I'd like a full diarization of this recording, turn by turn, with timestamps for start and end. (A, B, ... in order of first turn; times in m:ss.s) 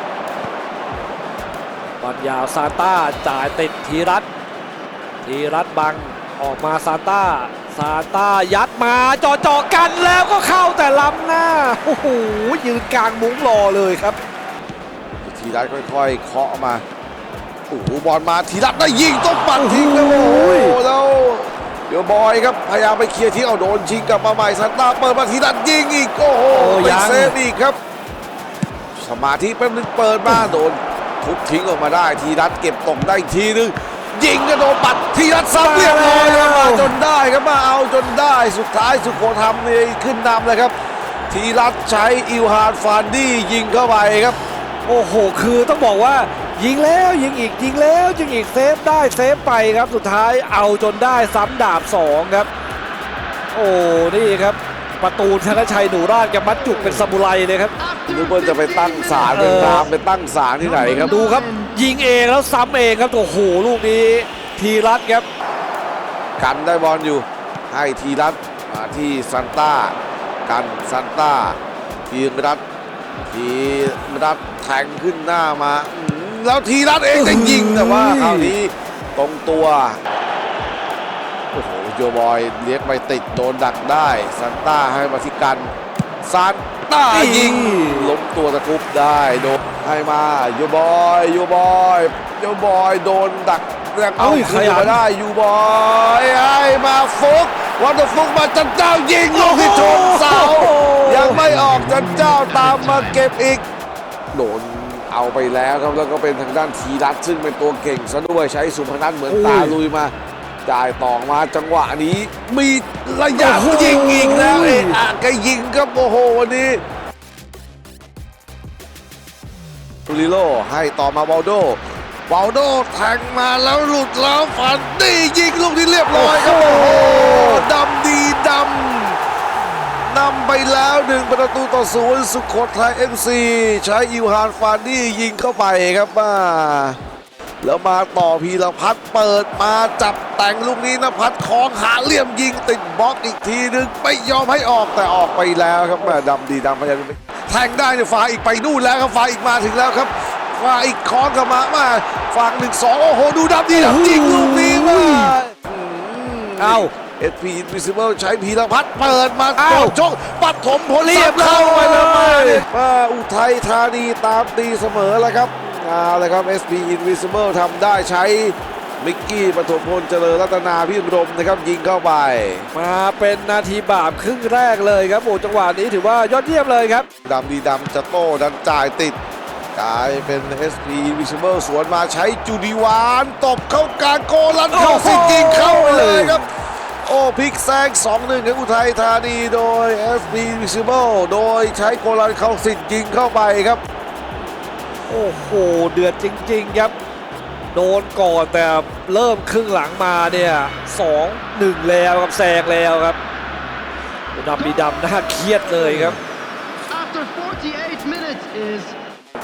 0:02.0-0:04.3 A
0:05.2-0:14.2 A
0:15.2-0:16.8 B
0:17.7-0:27.8 B
0:19.5-0:20.8 A
0:26.5-0:27.3 A
0:29.0-0:40.7 B
0:35.6-0:36.9 A
0:41.3-0:44.4 B
0:44.8-0:52.5 A
0:53.5-0:57.7 A
0:57.8-0:59.8 C
0:58.1-1:01.2 B
0:59.2-0:59.9 A
1:00.6-1:01.8 C
1:01.0-1:05.2 A
1:06.4-1:11.6 B
1:12.1-1:12.6 B
1:13.3-1:20.0 B
1:17.1-1:18.5 A
1:21.5-1:25.7 B
1:26.2-1:43.6 B
1:27.1-1:28.2 A
1:34.2-1:35.0 A
1:39.3-1:41.4 A
1:44.3-1:50.1 B
1:49.3-1:49.8 A
1:50.6-1:56.8 B
1:53.3-1:55.0 A
2:00.1-2:09.2 B
2:06.1-2:07.6 A
2:10.0-2:17.0 B
2:17.6-2:52.7 B
2:33.7-2:35.5 A
2:36.6-2:36.9 A
2:39.5-2:39.9 A
2:41.0-2:42.6 A
2:52.7-2:57.1 A
2:57.2-2:59.2 B
2:59.7-3:06.5 B
3:04.7-3:06.4 A
3:07.0-3:13.8 B
3:15.1-3:16.9 A
3:17.7-3:23.2 A
3:24.3-3:26.2 A
3:24.7-3:25.6 C
3:26.9-3:29.0 C